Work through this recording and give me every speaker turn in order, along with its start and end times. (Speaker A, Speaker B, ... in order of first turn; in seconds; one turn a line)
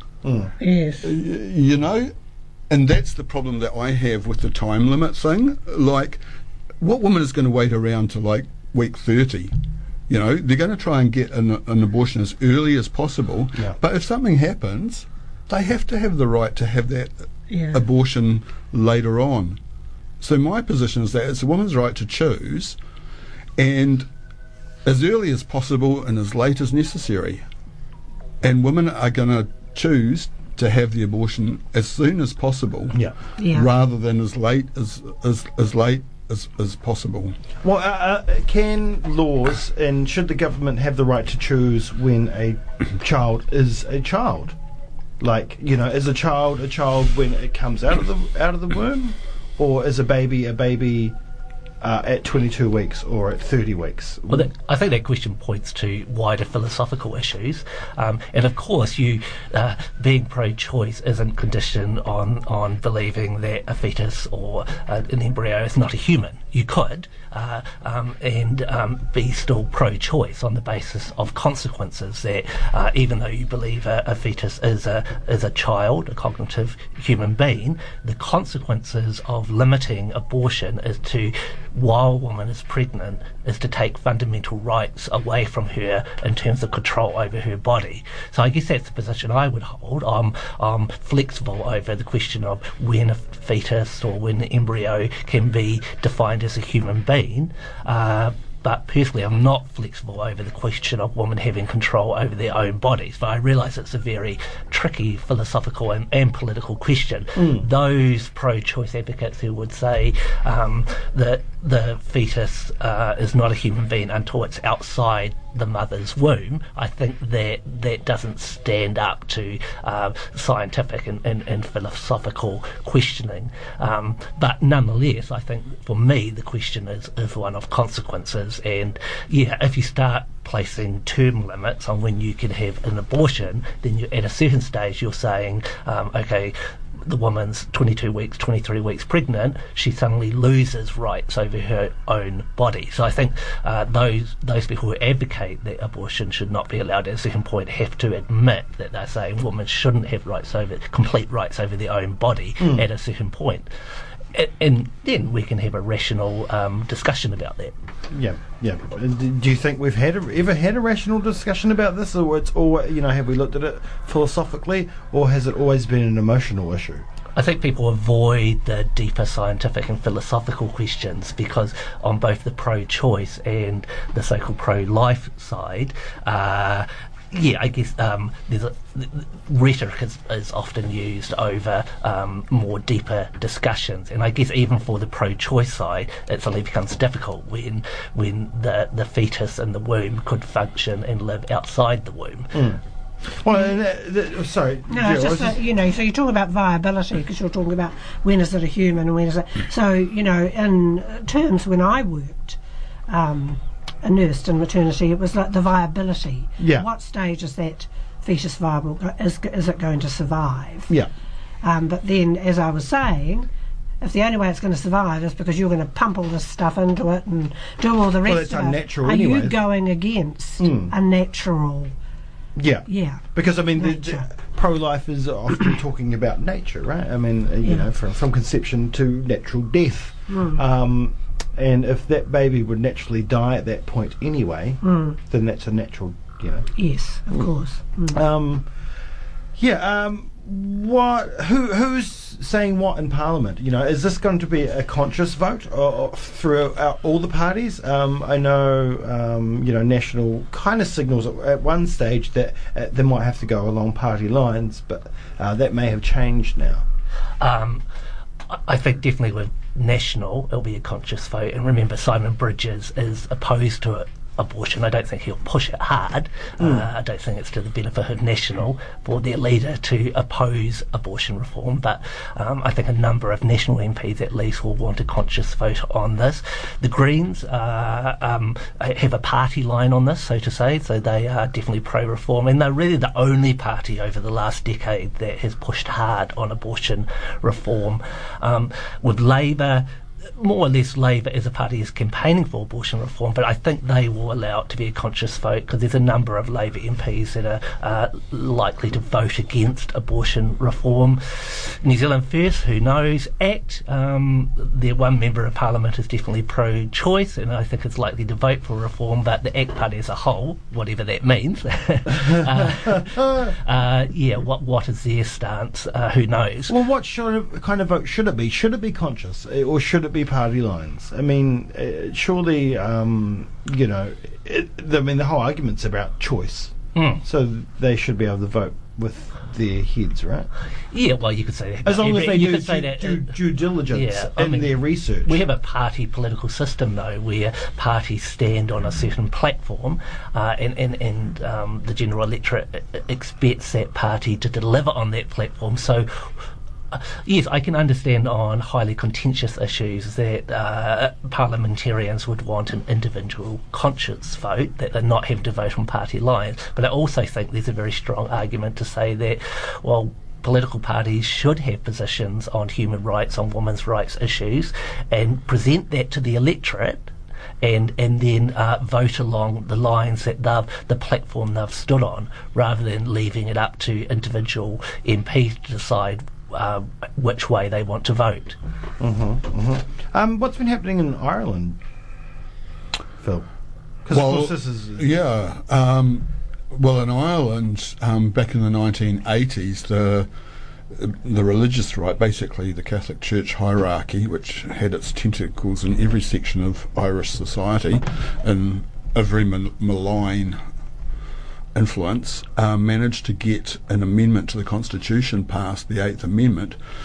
Speaker A: 0.2-0.5
Speaker B: 0.6-1.1
Speaker C: 1.0-2.1
Speaker C: 2.7-6.2
Speaker C: 6.8-9.6
Speaker C: 10.1-17.1
Speaker B: 17.5-17.8
Speaker C: 17.7-19.6
Speaker C: 20.2-22.8
Speaker C: 23.6-24.1
Speaker C: 24.9-27.4
Speaker C: 28.4-37.4
Speaker B: 33.4-33.7
Speaker A: 37.6-44.6
Speaker A: 45.2-51.2
Speaker A: 51.8-54.5
Speaker D: 54.3-153.7
Speaker A: 107.4-107.7
Speaker A: 152.6-152.9
Speaker D: 154.3-157.7
Speaker A: 158.1-167.1
Speaker D: 167.3-192.6
Speaker A: 192.5-195.6
Speaker B: 194.9-202.6
Speaker B: 203.1-210.9
Speaker A: 206.6-206.9
Speaker B: 211.6-213.5
Speaker B: 214.0-221.9
Speaker A: 218.2-219.6
Speaker A: 220.6-220.9
Speaker A: 222.6-236.7
Speaker B: 222.9-224.3
Speaker B: 230.3-230.6
Speaker B: 234.8-235.2
Speaker B: 236.8-238.2
Speaker A: 238.1-238.7
Speaker A: 239.6-256.9
Speaker D: 257.4-257.8
Speaker D: 258.5-289.9
Speaker A: 266.6-266.9
Speaker D: 290.4-316.8
Speaker A: 313.1-313.5
Speaker A: 316.7-330.5
Speaker D: 326.9-327.2
Speaker D: 330.9-346.3
Speaker A: 331.8-335.4
Speaker D: 346.9-367.1
Speaker D: 367.6-378.6
Speaker A: 379.0-381.8
Speaker A: 383.2-383.5
Speaker A: 384.1-385.1
Speaker C: 384.1-390.3
Speaker C: 390.9-400.6
Speaker C: 401.7-406.8